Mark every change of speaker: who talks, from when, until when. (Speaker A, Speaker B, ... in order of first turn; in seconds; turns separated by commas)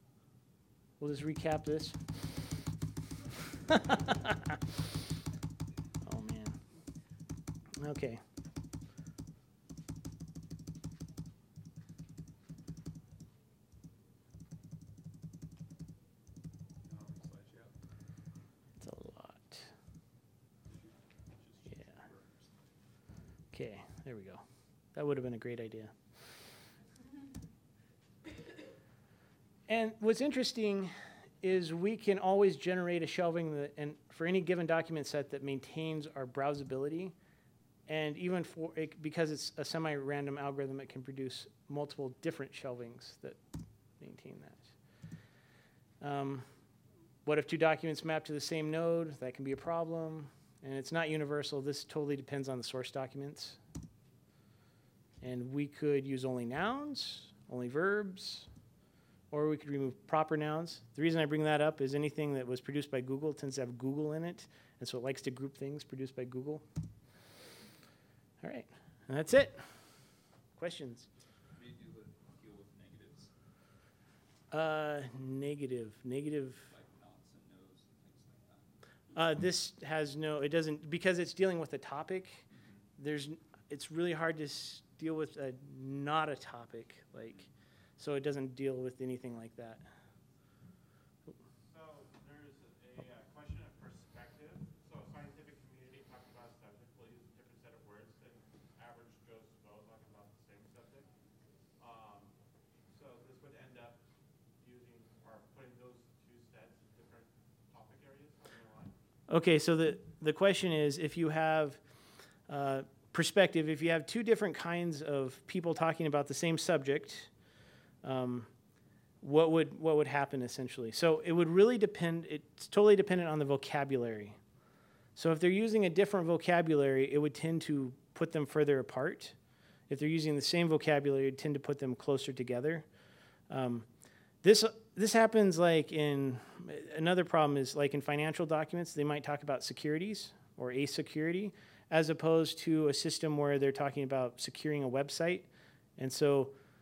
Speaker A: 1.0-2.0, Speaker A: 3.7-4.6, Speaker A: 6.0-6.5, Speaker A: 7.8-8.2, Speaker B: 16.8-17.8, Speaker A: 18.8-19.7, Speaker B: 20.6-22.8, Speaker A: 23.5-24.4, Speaker A: 24.9-25.9, Speaker A: 29.7-37.1, Speaker A: 37.9-43.4, Speaker A: 44.0-44.7, Speaker A: 46.0-46.5, Speaker A: 47.2-53.6, Speaker A: 55.2-58.5, Speaker A: 59.3-66.6, Speaker A: 68.4-69.6, Speaker A: 70.5-71.1, Speaker B: 71.5-73.3, Speaker A: 74.5-76.7, Speaker B: 76.7-78.7, Speaker A: 79.1-82.4, Speaker B: 82.6-82.8, Speaker A: 83.0-87.5, Speaker A: 88.0-89.8, Speaker C: 91.7-101.1, Speaker C: 101.8-102.3, Speaker C: 102.9-104.0, Speaker C: 104.6-108.9, Speaker A: 109.3-111.8, Speaker A: 112.5-117.3, Speaker A: 118.0-118.5, Speaker A: 119.2-124.4, Speaker A: 125.2-129.3, Speaker A: 129.9-132.8, Speaker A: 133.5-133.8, Speaker A: 134.4-145.5, Speaker A: 146.0-146.5